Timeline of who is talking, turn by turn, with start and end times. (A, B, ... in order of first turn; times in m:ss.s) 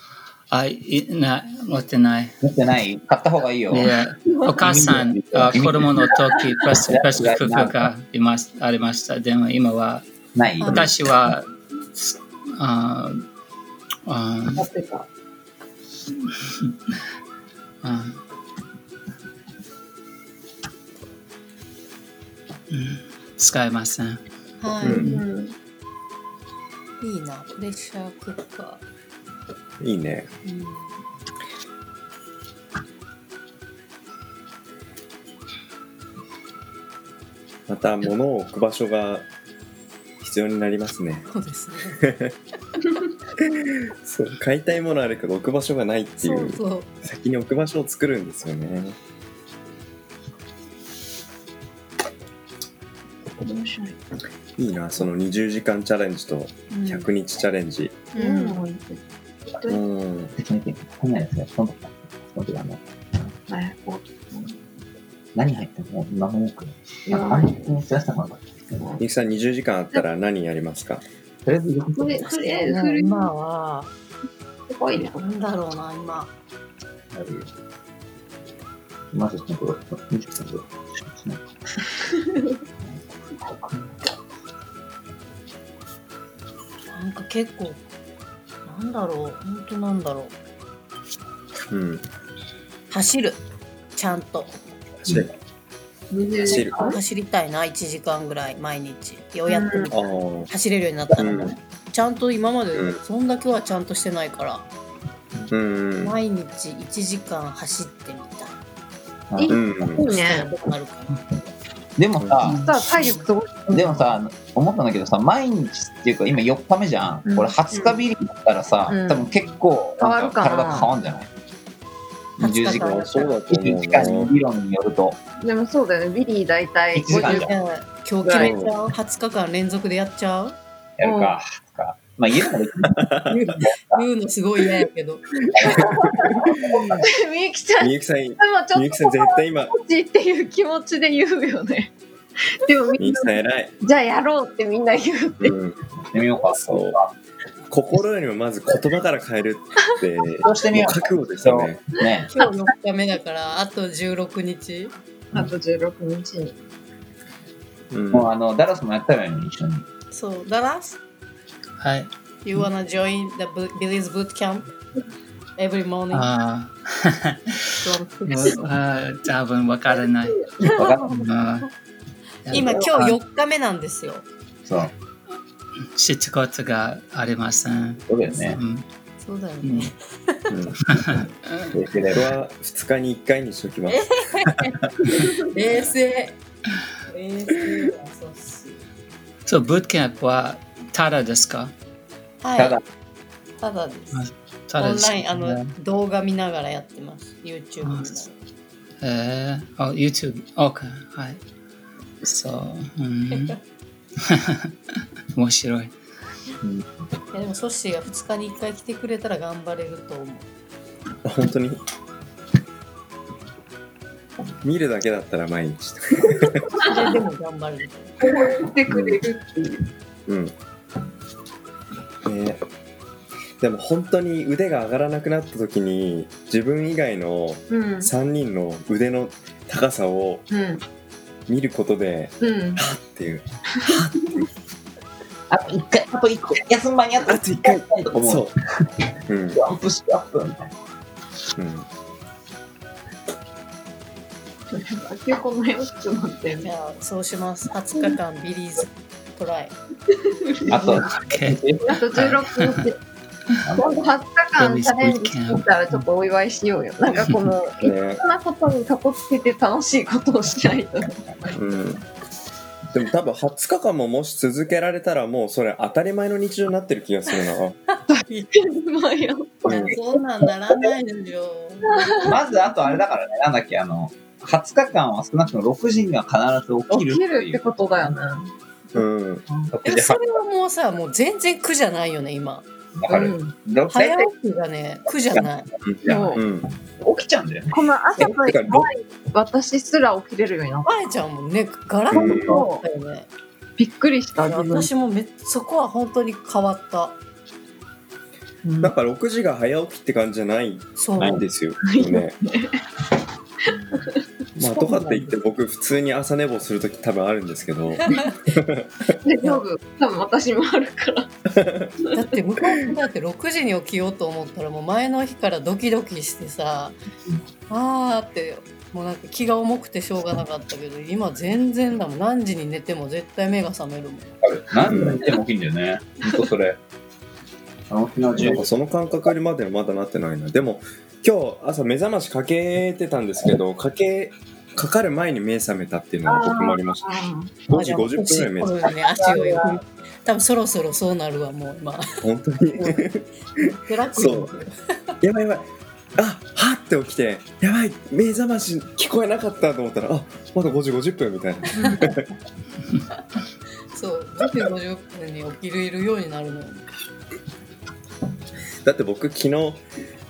0:00.5-0:02.4 A
0:02.4-0:03.9 B
0:03.7-0:10.0 A
0:04.2-0:04.5 C
0:04.6-0:06.2 B
0:06.8-0:07.9 B
0:10.3-0:10.9 B
0:10.6-0:13.2 A
0:14.0-0:14.7 A
0:14.5-0:15.1 C
0:17.8-0:18.2 A
0:22.7-0:24.2 A
0:24.6-0:25.2 D
0:24.8-0:25.1 E
0:24.9-0:25.5 C
0:27.0-0:28.8 D
0:29.8-0:30.3 E
0:30.4-0:30.9 D
0:37.7-0:39.3 E
0:40.2-0:41.3 E
0:41.3-0:42.0 D
0:42.0-0:42.3 E
0:43.4-0:49.0 E
0:46.2-0:46.9 D
0:53.4-0:54.0 C
0:54.6-0:58.1 E
0:56.7-0:57.1 D
0:58.1-0:58.6 D
0:58.1-0:59.8 C
0:59.6-1:00.3 E
1:00.3-1:02.8 B
1:03.5-1:04.5 C
1:05.3-1:09.0 B
1:07.1-1:07.5 C
1:09.0-1:11.0 E
1:11.4-1:12.4 B
1:11.9-1:13.3 C
1:12.4-1:13.9 D
1:14.7-1:15.3 C
1:15.2-1:16.3 D
1:17.1-1:17.5 B
1:19.1-1:21.4 B
1:22.9-1:23.9 B
1:26.9-1:27.8 D
1:28.6-1:30.3 D
1:31.7-1:32.0 E
1:32.9-1:33.4 D
1:34.0-1:34.5 D
1:35.0-1:35.3 E
1:36.1-1:37.0 C
1:36.4-1:44.7 D
1:36.5-1:36.7 E
1:39.5-1:39.9 C
1:39.9-1:40.5 E
1:41.2-1:41.5 E
1:45.5-1:46.2 E
1:46.0-1:48.6 D
1:49.3-1:49.6 B
1:49.4-1:50.5 C
1:49.5-1:50.0 E
1:50.0-1:51.2 D
1:52.0-1:52.9 B
1:52.2-1:52.5 E
1:52.5-1:54.1 C
1:52.8-1:53.2 D
1:53.7-2:01.3 B
1:57.2-1:57.5 C
1:58.9-1:59.3 C
2:00.0-2:00.9 C
2:02.4-2:03.4 D
2:02.4-2:05.2 B
2:02.7-2:04.3 E
2:05.4-2:07.5 C
2:06.9-2:07.5 B
2:07.1-2:10.6 D
2:08.2-2:08.6 C
2:08.3-2:08.7 E
2:11.0-2:14.0 B
2:11.0-2:11.4 C
2:12.8-2:13.4 E
2:13.3-2:15.3 D
2:15.6-2:16.2 B
2:15.6-2:21.9 C
2:16.1-2:16.6 E
2:17.8-2:19.7 E
2:22.5-2:25.5 C
2:23.0-2:23.7 E
2:25.4-2:25.8 E
2:26.1-2:27.1 B
2:26.5-2:27.0 E
2:27.7-2:31.8 E
2:30.4-2:32.3 B
2:32.3-2:34.9 D
2:32.4-2:32.6 C
2:35.3-2:36.6 C
2:37.9-2:38.3 E
2:38.1-2:39.8 B
2:40.1-2:41.0 D
2:41.8-2:42.1 A
2:42.4-2:44.7 D
2:45.6-2:46.3 D
2:46.1-2:47.6 A
2:47.8-2:48.7 D
2:48.3-2:50.5 A
2:50.6-2:50.9 C
2:50.6-2:51.1 B
2:51.1-2:51.7 A
2:52.4-2:53.2 A
2:52.5-2:54.2 D
2:54.6-2:54.9 B
2:56.0-2:58.8 A
2:58.1-2:58.6 B
2:59.2-3:00.5 D
2:59.6-2:59.9 A
3:00.5-3:00.9 E
3:00.9-3:01.7 A
3:01.7-3:02.3 B
3:02.1-3:05.0 E
3:03.9-3:04.7 D
3:05.4-3:06.4 D
3:07.1-3:08.8 D
3:09.5-3:11.7 A
3:12.4-3:12.8 D
3:13.6-3:18.3 D
3:14.1-3:15.7 A
3:17.8-3:18.1 A
3:19.0-3:21.4 A
3:22.2-3:23.6 A
3:24.2-3:24.7 A
3:25.3-3:25.9 A
3:27.3-3:30.5 D
3:31.2-3:31.8 E
3:34.6-3:36.7 E
3:36.8-3:38.2 D
3:38.2-3:39.9 C
3:38.9-3:39.2 E
3:40.3-3:40.5 E
3:42.2-3:42.6 E
3:43.6-3:50.4 E
3:47.7-3:48.1 C
3:50.5-3:50.8 C
3:51.5-3:54.4 E
3:52.4-3:52.8 C
3:55.5-3:58.8 B
3:57.3-3:58.5 E
3:59.3-3:59.6 E
3:59.5-4:00.7 B
4:01.6-4:01.8 E
4:04.7-4:06.7 C
4:06.6-4:09.8 D
4:10.3-4:11.0 C
4:10.7-4:11.9 B
4:11.2-4:11.6 A
4:11.8-4:13.0 C
4:12.1-4:12.8 A
4:13.7-4:21.6 C
4:14.6-4:16.0 A
4:17.8-4:18.2 E
4:21.5-4:22.0 E
4:22.9-4:27.8 E
4:28.2-4:28.5 D
4:28.5-4:30.0 C
4:29.7-4:30.0 E
4:29.7-4:32.3 D
4:31.8-4:32.4 C
4:32.2-4:37.6 B
4:36.9-4:38.5 C
4:38.9-4:39.4 E
4:39.7-4:40.2 B
4:39.8-4:42.6 D
4:42.9-4:44.3 B
4:43.1-4:43.5 C
4:43.9-4:45.7 D
4:45.8-4:46.7 E
4:46.0-4:48.3 B
4:46.0-4:46.4 C
4:47.7-4:50.9 C
4:48.5-4:48.8 E
4:50.8-4:53.3 D
4:52.1-4:52.6 E
4:52.1-4:52.8 C
4:53.8-4:54.9 C
4:54.4-4:57.2 D
4:58.6-4:58.9 C
4:58.8-5:02.4 E
5:01.0-5:01.4 D
5:01.8-5:02.8 C
5:03.7-5:04.2 C
5:04.6-5:09.2 E
5:04.6-5:05.3 D
5:08.1-5:08.4 D
5:09.2-5:11.3 C
5:11.5-5:11.9 E
5:12.1-5:17.0 D
5:17.7-5:24.4 D
5:24.4-5:26.8 B
5:24.8-5:25.3 E
5:27.9-5:28.6 B
5:28.4-5:37.1 E
5:36.2-5:37.6 C
5:37.7-5:38.9 E
5:37.7-5:42.2 D
5:39.2-5:39.8 C
5:42.2-5:44.5 E
5:43.8-5:45.1 D
5:45.2-5:52.2 E
5:51.8-5:52.1 D
5:53.9-5:56.8 D
5:58.8-5:59.8 E